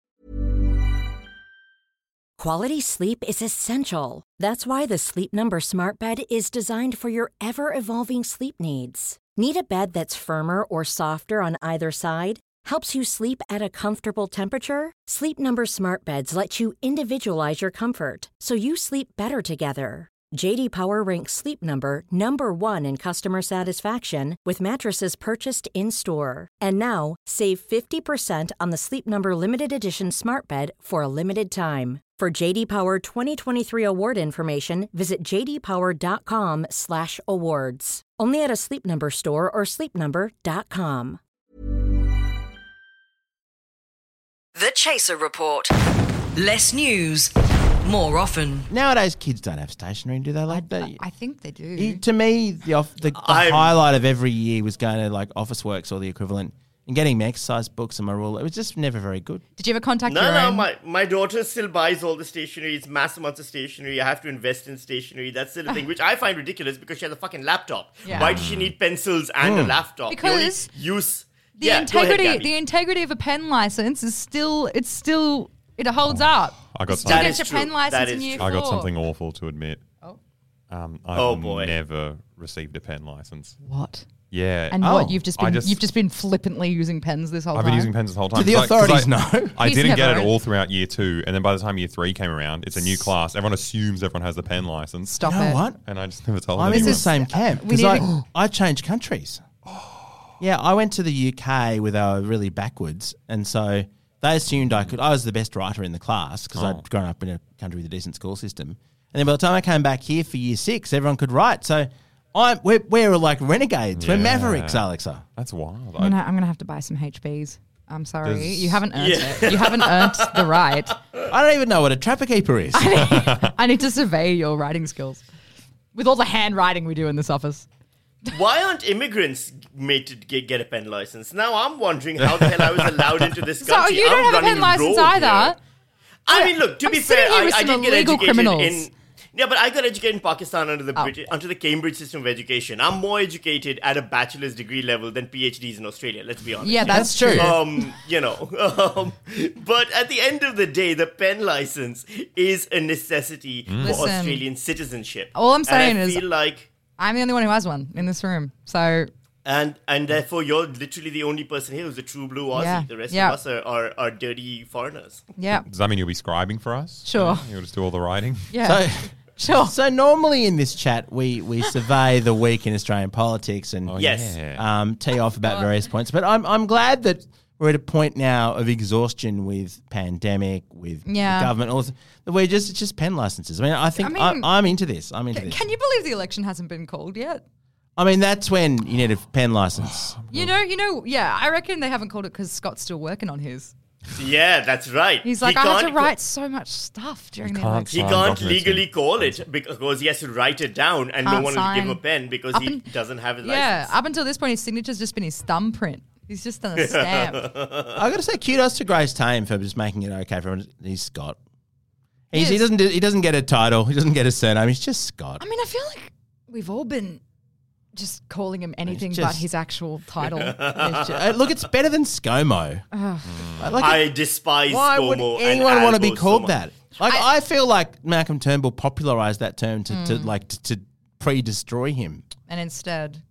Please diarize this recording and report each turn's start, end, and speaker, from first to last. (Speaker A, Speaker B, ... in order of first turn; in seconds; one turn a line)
Speaker A: 2.4-41.2
Speaker B: 44.5-45.7
Speaker B: 46.4-47.3
Speaker B: 47.8-48.7
Speaker C: 48.7-51.0
Speaker D: 50.5-52.0
Speaker C: 51.8-59.4
Speaker E: 53.2-53.8
Speaker D: 59.6-60.7
Speaker E: 60.0-72.5
Speaker D: 68.0-68.4
Speaker F: 68.1-68.8
Speaker C: 69.4-69.8
Speaker D: 70.1-70.7
Speaker D: 71.6-78.9
Speaker F: 76.1-77.4
Speaker E: 77.0-78.5
Speaker F: 78.4-79.8
Speaker F: 80.7-83.5
Speaker E: 81.1-81.7
Speaker D: 83.6-84.1
Speaker F: 84.3-85.8
Speaker D: 84.7-87.9
Speaker C: 84.8-85.2
Speaker F: 87.5-95.2
Speaker C: 88.3-89.6
Speaker D: 89.6-90.3
Speaker D: 92.8-93.1
Speaker D: 95.1-95.6
Speaker C: 95.2-95.8
Speaker F: 95.8-97.1
Speaker C: 96.5-99.4
Speaker D: 96.6-98.1
Speaker F: 99.7-100.0
Speaker C: 100.4-115.2
Speaker F: 104.6-104.9
Speaker F: 106.5-106.8
Speaker F: 114.0-116.2
Speaker D: 116.0-121.0
Speaker F: 118.2-118.8
Speaker E: 118.9-120.7
Speaker C: 121.3-123.0
Speaker D: 122.7-125.2
Speaker F: 123.1-123.5
Speaker D: 125.9-127.7
Speaker E: 128.3-135.5
Speaker F: 132.5-133.1
Speaker D: 133.6-135.6
Speaker E: 136.2-156.7
Speaker D: 136.3-138.9
Speaker D: 146.6-147.8
Speaker C: 146.8-147.6
Speaker F: 153.7-154.1
Speaker D: 153.8-154.4
Speaker D: 155.3-156.2
Speaker D: 157.0-159.1
Speaker E: 159.4-165.2
Speaker D: 162.5-163.4
Speaker D: 165.4-165.7
Speaker F: 165.7-168.5
Speaker D: 167.0-167.5
Speaker D: 168.5-168.8
Speaker C: 168.6-185.6
Speaker D: 169.3-169.7
Speaker F: 173.9-174.6
Speaker E: 174.0-174.3
Speaker D: 175.3-175.7
Speaker D: 181.0-181.5
Speaker D: 183.9-184.6
Speaker D: 185.3-187.4
Speaker C: 188.0-190.1
Speaker F: 190.2-190.5
Speaker D: 190.3-193.7
Speaker E: 194.2-196.1
Speaker D: 195.2-198.2
Speaker F: 197.4-199.4
Speaker E: 197.9-203.9
Speaker D: 201.2-202.9
Speaker D: 203.4-207.5
Speaker E: 206.8-207.9
Speaker C: 207.9-211.4
Speaker C: 212.3-215.4
Speaker D: 212.3-212.7
Speaker D: 215.4-217.2
Speaker D: 217.9-221.2
Speaker C: 218.8-219.4
Speaker E: 220.2-221.4
Speaker C: 220.8-222.8
Speaker D: 222.9-223.4
Speaker F: 223.3-223.9
Speaker C: 223.6-224.1
Speaker E: 223.8-226.6
Speaker C: 224.7-232.2
Speaker D: 227.0-227.3
Speaker D: 229.9-230.3
Speaker D: 232.5-233.2